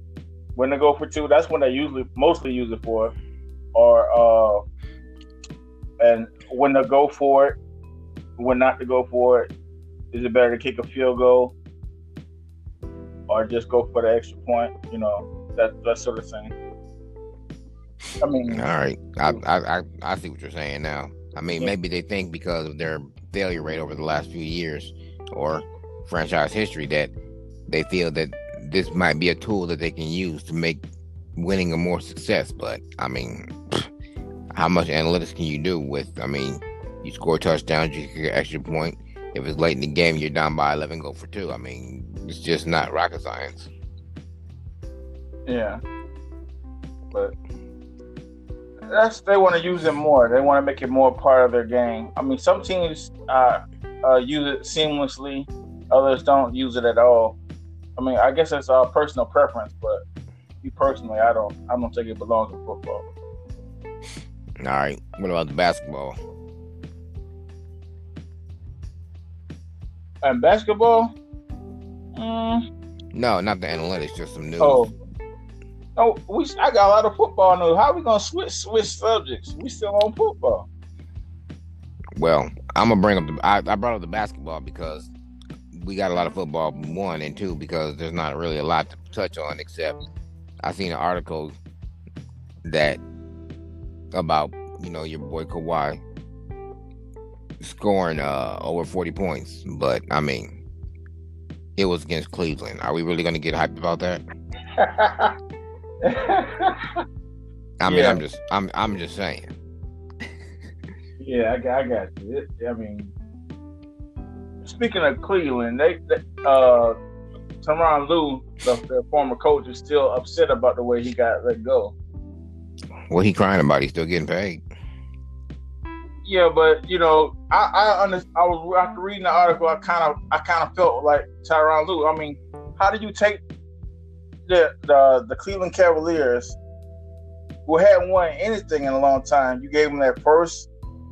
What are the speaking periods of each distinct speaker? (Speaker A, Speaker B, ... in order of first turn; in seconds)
Speaker A: 0.6-3.1, 3.8-4.6, 6.0-7.6, 8.4-9.5, 10.1-11.5, 13.3-16.5, 18.2-18.7, 45.5-45.8, 48.9-57.4, 58.0-60.0, 60.6-63.1, 70.2-71.1, 72.2-72.6, 74.6-74.9, 76.0-80.7, 104.8-105.3, 106.0-107.0, 107.8-108.2, 111.2-113.1, 114.7-117.0, 117.6-122.0, 126.2-133.4, 134.5-136.6, 137.7-140.7
Speaker B: 18.5-27.1, 27.7-30.8, 31.4-33.9, 34.5-43.7, 64.6-66.2, 73.1-74.8, 82.2-85.1, 85.7-90.0, 90.6-91.6, 92.7-93.0, 94.1-96.0, 97.6-100.6, 101.8-104.2, 107.8-109.5, 123.1-124.6